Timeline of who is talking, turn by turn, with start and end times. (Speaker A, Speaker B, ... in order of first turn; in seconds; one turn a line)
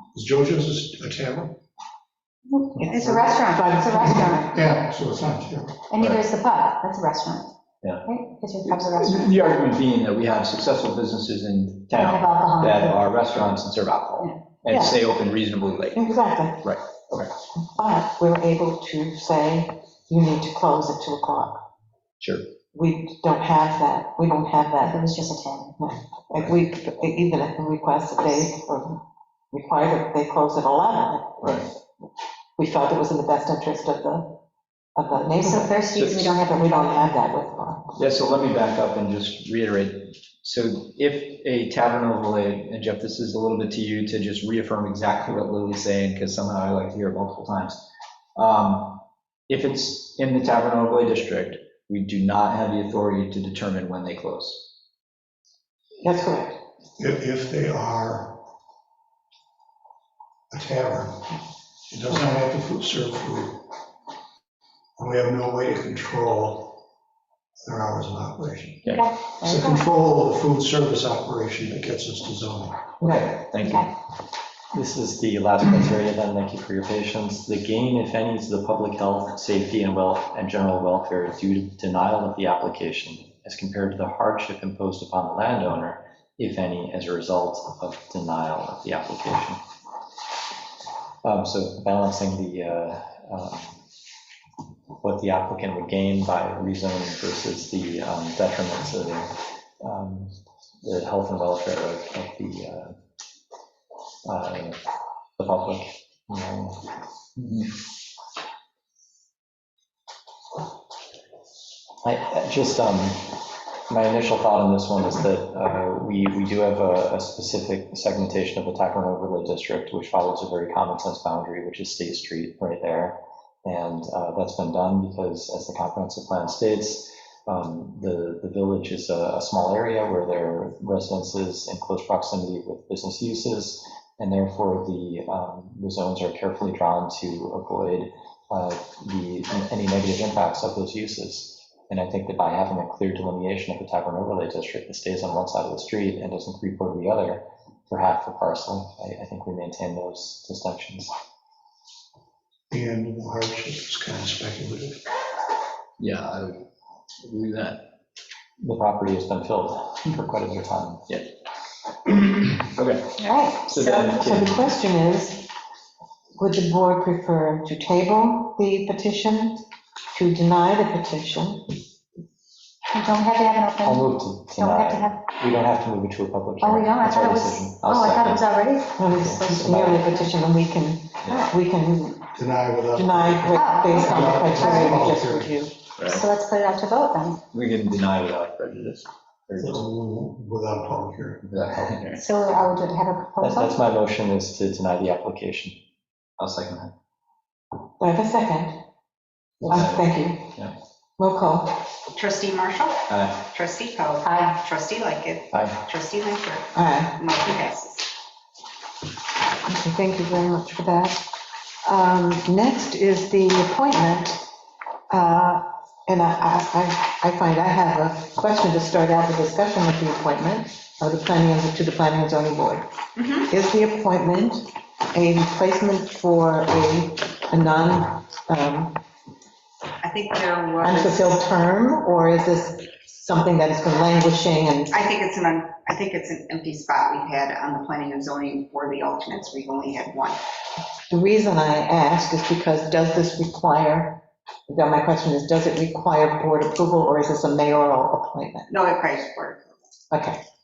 Speaker A: 0.1-1.6
Speaker B: 2.5-4.5
Speaker C: 2.8-4.5
Speaker A: 4.2-5.8
Speaker B: 5.9-7.5
Speaker B: 8.0-9.6
Speaker D: 8.7-16.0
Speaker B: 11.9-13.1
Speaker C: 14.7-15.0
Speaker C: 15.9-16.7
Speaker D: 16.6-17.3
Speaker C: 17.7-21.6
Speaker C: 22.7-25.1
Speaker B: 24.8-25.8
Speaker C: 25.8-31.8
Speaker C: 32.6-34.4
Speaker C: 35.0-38.0
Speaker B: 35.4-37.1
Speaker D: 38.0-47.8
Speaker D: 48.4-54.6
Speaker C: 56.0-56.6
Speaker A: 57.0-58.4
Speaker A: 60.5-61.3
Speaker A: 61.9-63.6
Speaker A: 65.0-66.8
Speaker A: 67.7-73.0
Speaker B: 68.9-69.8
Speaker C: 73.0-73.3
Speaker D: 73.0-73.9
Speaker B: 73.6-73.9
Speaker E: 74.7-89.6
Speaker E: 91.2-93.8
Speaker E: 95.0-103.0
Speaker E: 104.2-104.8
Speaker E: 105.4-106.9
Speaker D: 107.4-107.7
Speaker E: 112.0-151.1
Speaker A: 152.7-155.0
Speaker D: 156.0-156.6
Speaker D: 157.2-157.8
Speaker E: 158.6-161.0
Speaker D: 162.6-163.0
Speaker B: 163.2-164.2
Speaker D: 163.7-164.7
Speaker C: 164.1-165.5
Speaker C: 166.4-171.8
Speaker B: 172.9-175.2
Speaker E: 173.8-178.6
Speaker B: 176.6-180.3
Speaker C: 179.0-182.2
Speaker E: 179.2-180.1
Speaker A: 182.3-185.6
Speaker C: 183.0-185.7
Speaker B: 183.5-185.1
Speaker B: 186.0-187.4
Speaker D: 187.5-189.8
Speaker A: 189.6-191.5
Speaker D: 191.4-192.2
Speaker B: 192.1-193.8
Speaker E: 193.4-195.8
Speaker D: 196.4-196.9
Speaker C: 198.0-198.8
Speaker D: 199.6-200.0
Speaker C: 199.7-200.6
Speaker C: 201.2-201.8
Speaker F: 202.1-208.1
Speaker D: 203.1-203.3
Speaker B: 204.2-204.6
Speaker E: 205.5-205.8
Speaker C: 206.7-207.2
Speaker C: 209.7-211.3
Speaker C: 211.8-214.4
Speaker C: 215.1-222.9
Speaker F: 223.2-223.5
Speaker C: 223.5-229.0
Speaker F: 230.0-231.4
Speaker C: 230.8-235.0
Speaker F: 234.9-240.4
Speaker C: 241.1-248.7
Speaker F: 248.7-249.7
Speaker C: 250.1-250.4